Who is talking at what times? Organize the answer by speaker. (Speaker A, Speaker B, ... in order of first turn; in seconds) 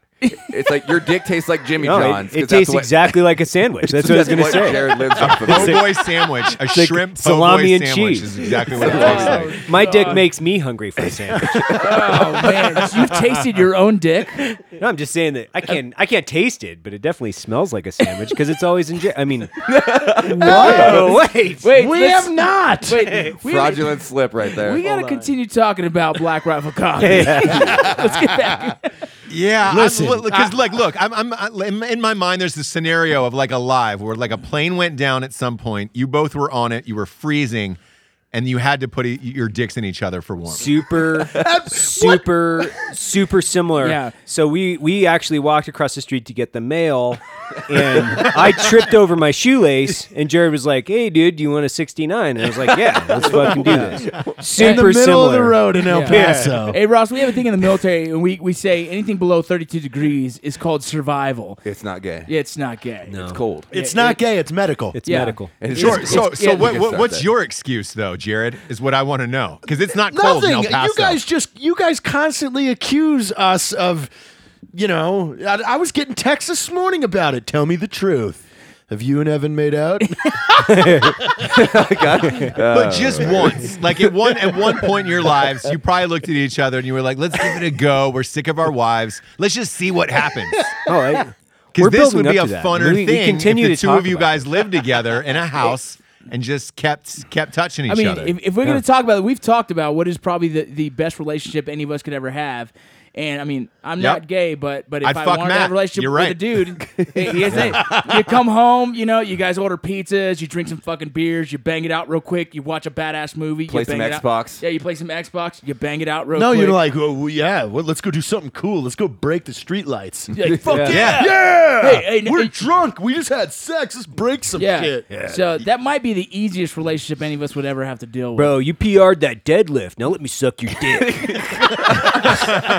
Speaker A: 0.2-0.5, 8.8-10.2, 11.7-14.5, 18.0-18.3, 20.3-28.9, 43.8-44.1, 54.6-54.8, 55.9-61.6, 62.2-64.2, 65.0-66.7, 97.9-116.8, 120.3-122.5, 124.6-128.5
Speaker B: 0.5-3.2, 3.9-5.8, 8.8-9.5, 11.3-12.1, 19.6-21.0, 23.4-24.8, 52.6-54.3, 61.6-62.3, 63.2-63.7, 65.6-67.3, 81.5-83.7, 113.7-114.6, 131.2-132.2
Speaker C: 1.8-6.0, 6.7-12.4, 14.6-21.7, 23.0-23.4, 24.8-25.3, 27.0-27.9, 40.5-56.7, 63.0-63.4, 64.9-65.7, 80.5-82.6, 90.8-94.4, 120.6-121.1, 125.1-125.4, 128.3-132.6
Speaker D: 5.2-9.5, 29.3-37.8, 38.3-40.8, 65.7-71.2, 82.6-90.7, 91.7-98.3, 104.0-104.2, 105.0-106.5, 120.9-121.2
Speaker E: 20.3-23.1, 29.7-30.6, 41.2-42.9, 53.4-53.8, 54.4-56.8, 63.7-65.9, 70.1-74.1, 74.7-81.5, 84.5-84.8, 90.9-91.2, 107.6-108.2, 116.3-120.3, 120.9-125.2